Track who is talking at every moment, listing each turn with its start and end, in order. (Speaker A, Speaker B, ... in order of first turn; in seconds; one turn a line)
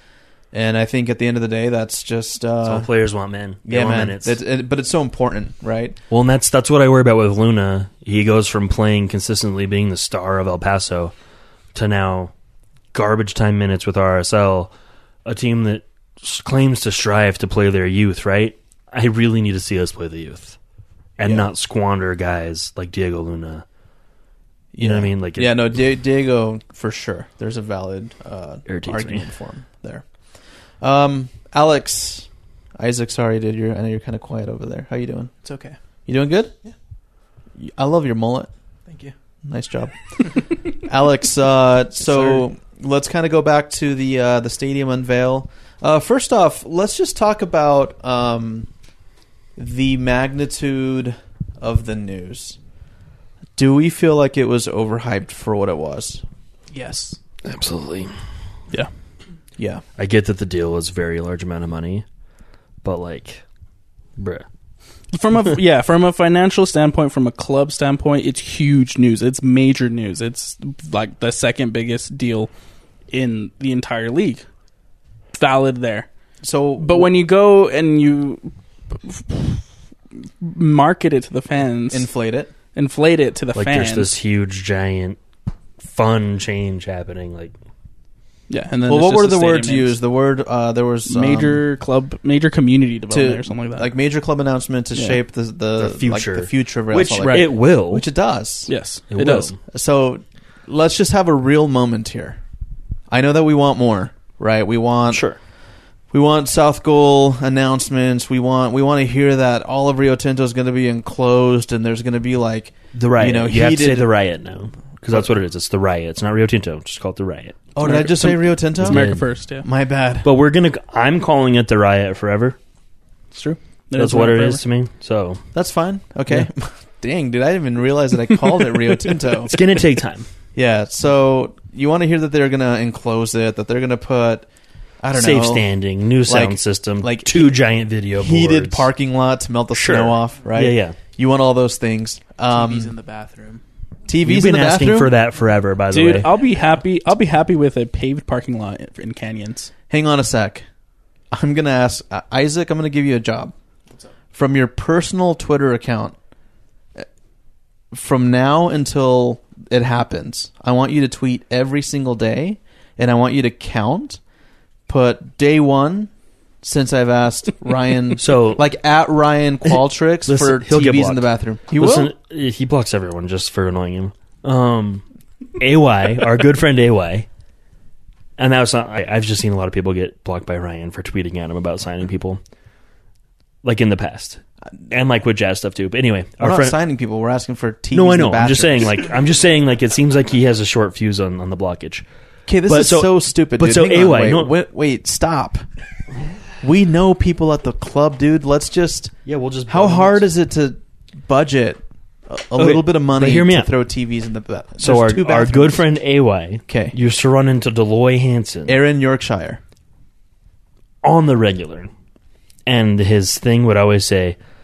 Speaker A: 0.5-2.9
Speaker B: 2.6-4.4
Speaker A: 3.7-6.0
Speaker B: 6.1-11.1
Speaker B: 11.7-12.3
Speaker B: 12.9-14.7
Speaker B: 15.2-20.6
Speaker B: 21.2-23.6
Speaker A: 21.2-21.5
Speaker A: 24.7-30.1
Speaker B: 24.8-25.7
Speaker B: 28.7-29.3
Speaker A: 30.8-32.3
Speaker A: 32.8-35.3
Speaker C: 35.4-35.8
Speaker A: 36.1-36.5
Speaker A: 37.6-38.5
Speaker C: 38.9-39.1
Speaker A: 39.5-48.7
Speaker A: 49.6-52.6
Speaker A: 53.6-56.2
Speaker C: 56.7-57.2
Speaker B: 57.5-58.1
Speaker A: 59.6-59.8
Speaker B: 60.0-62.0
Speaker B: 62.8-63.4
Speaker B: 64.2-64.5
Speaker D: 65.1-72.5
Speaker D: 73.1-74.5
Speaker D: 75.3-76.1
Speaker A: 76.4-77.1
Speaker D: 76.8-78.5
Speaker D: 79.0-79.6
Speaker D: 80.4-82.1
Speaker A: 81.9-82.5
Speaker D: 82.8-84.1
Speaker B: 83.5-85.2
Speaker B: 85.8-87.5
Speaker D: 88.5-90.0
Speaker A: 88.9-91.6
Speaker D: 91.1-93.9
Speaker A: 93.1-98.7
Speaker D: 95.0-95.2
Speaker B: 95.8-98.1
Speaker D: 97.2-97.5
Speaker D: 98.7-99.5
Speaker B: 99.1-99.6
Speaker A: 99.7-102.4
Speaker A: 103.1-105.3
Speaker B: 105.1-105.4
Speaker A: 106.1-114.3
Speaker B: 112.9-117.6
Speaker A: 117.8-119.1
Speaker D: 117.8-119.7
Speaker B: 118.8-119.2
Speaker A: 119.6-120.3
Speaker B: 120.2-122.6
Speaker D: 123.3-124.6
Speaker B: 124.0-125.4
Speaker A: 125.5-129.6
Speaker B: 129.4-130.3
Speaker A: 130.6-134.5
Speaker A: 135.0-135.7
Speaker B: 135.1-138.9
Speaker A: 136.3-137.6
Speaker A: 138.2-142.9
Speaker B: 139.7-141.0
Speaker C: 142.5-143.6
Speaker A: 144.1-145.1
Speaker B: 144.2-146.3
Speaker D: 145.9-149.7
Speaker A: 149.9-150.7
Speaker A: 151.3-153.5
Speaker A: 154.3-156.2
Speaker A: 157.9-164.2
Speaker A: 164.9-166.1
Speaker A: 166.6-172.1
Speaker B: 168.2-168.7
Speaker B: 170.2-175.0
Speaker B: 175.6-177.3
Speaker B: 178.4-182.4
Speaker B: 183.6-186.8
Speaker A: 186.4-189.1
Speaker B: 187.9-192.1
Speaker A: 192.5-195.6
Speaker B: 192.7-194.6
Speaker A: 196.6-199.1
Speaker B: 199.3-200.3
Speaker A: 199.7-205.8
Speaker B: 202.6-203.7
Speaker B: 204.8-208.8
Speaker A: 206.7-206.9
Speaker A: 208.7-209.6
Speaker B: 211.0-211.9
Speaker B: 212.7-214.4